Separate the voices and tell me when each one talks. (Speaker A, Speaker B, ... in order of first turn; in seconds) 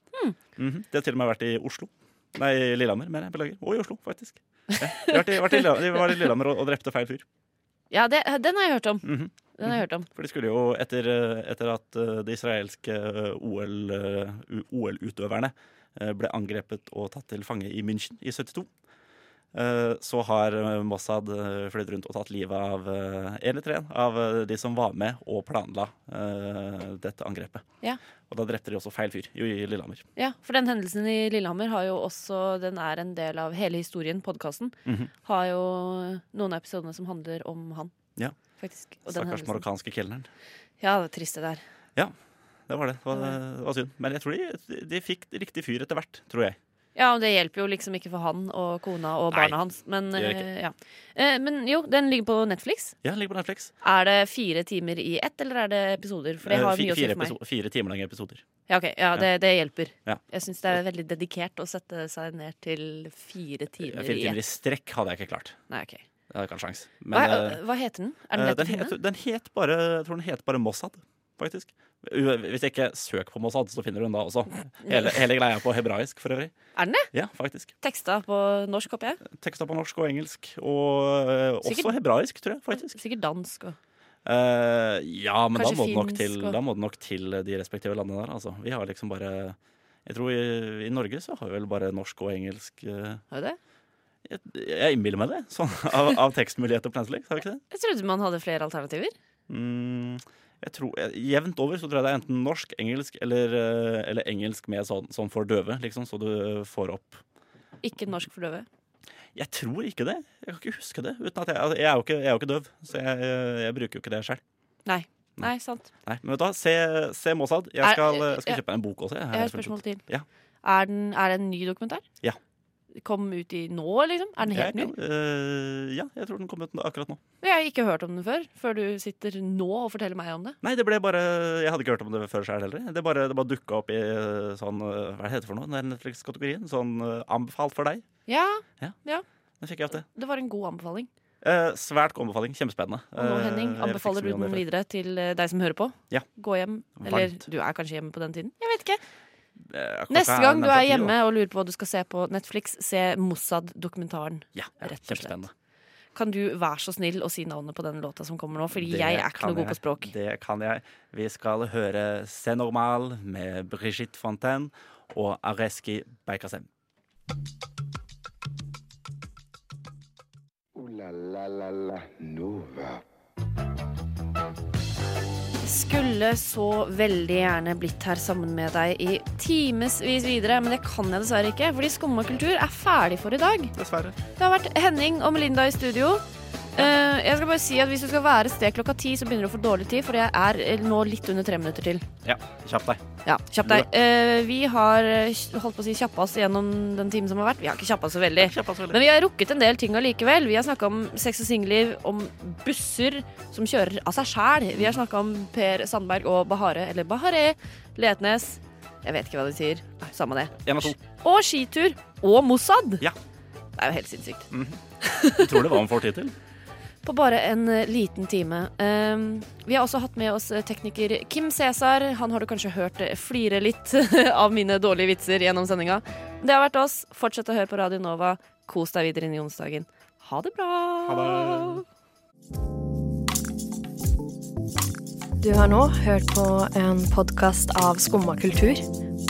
Speaker A: 0.6-7.2, 9.0-18.7, 19.5-27.6, 28.3-30.0, 34.9-35.1, 39.0-40.3, 42.7-46.6, 49.3-49.6, 50.1-50.5, 53.0-53.7, 56.4-58.4, 63.8-65.6, 66.3-67.6, 68.3-76.5, 77.1-77.7, 79.2-83.0, 84.2-93.2, 94.2-97.6, 99.5-107.2, 109.3-114.4, 116.0-120.2, 124.5-127.2, 130.6-138.0, 139.6-140.1, 141.4-144.6, 147.0-147.4, 149.6-151.1, 154.5-155.5, 158.7-166.7, 183.7-184.2, 192.2-193.0, 193.6-193.9, 198.4-199.0, 204.7-205.0, 210.6-211.0, 214.5-214.8, 215.3-216.3, 231.1-231.8
Speaker B: 5.0-5.6, 7.9-10.1, 30.2-37.9, 38.6-39.6, 40.8-41.6, 46.9-53.0, 53.8-57.4, 58.7-64.4, 65.7-66.0, 67.1-68.9, 76.8-77.1, 77.8-79.2, 81.6-81.9, 82.7-83.8, 85.5-86.6, 93.3-93.6, 97.7-99.1, 107.8-108.7, 114.8-115.9, 117.8-118.6, 119.3-120.0, 120.6-122.0, 122.9-124.9, 127.4-130.6, 138.3-139.2, 139.9-141.1, 143.2-149.0, 150.1-155.4, 156.1-160.1, 175.6-183.7, 184.4-186.2, 186.7-192.0, 193.2-213.0, 213.8-214.5, 215.0-215.6, 217.0-231.8
Speaker C: 170.7-173.0
Speaker D: 235.4-238.8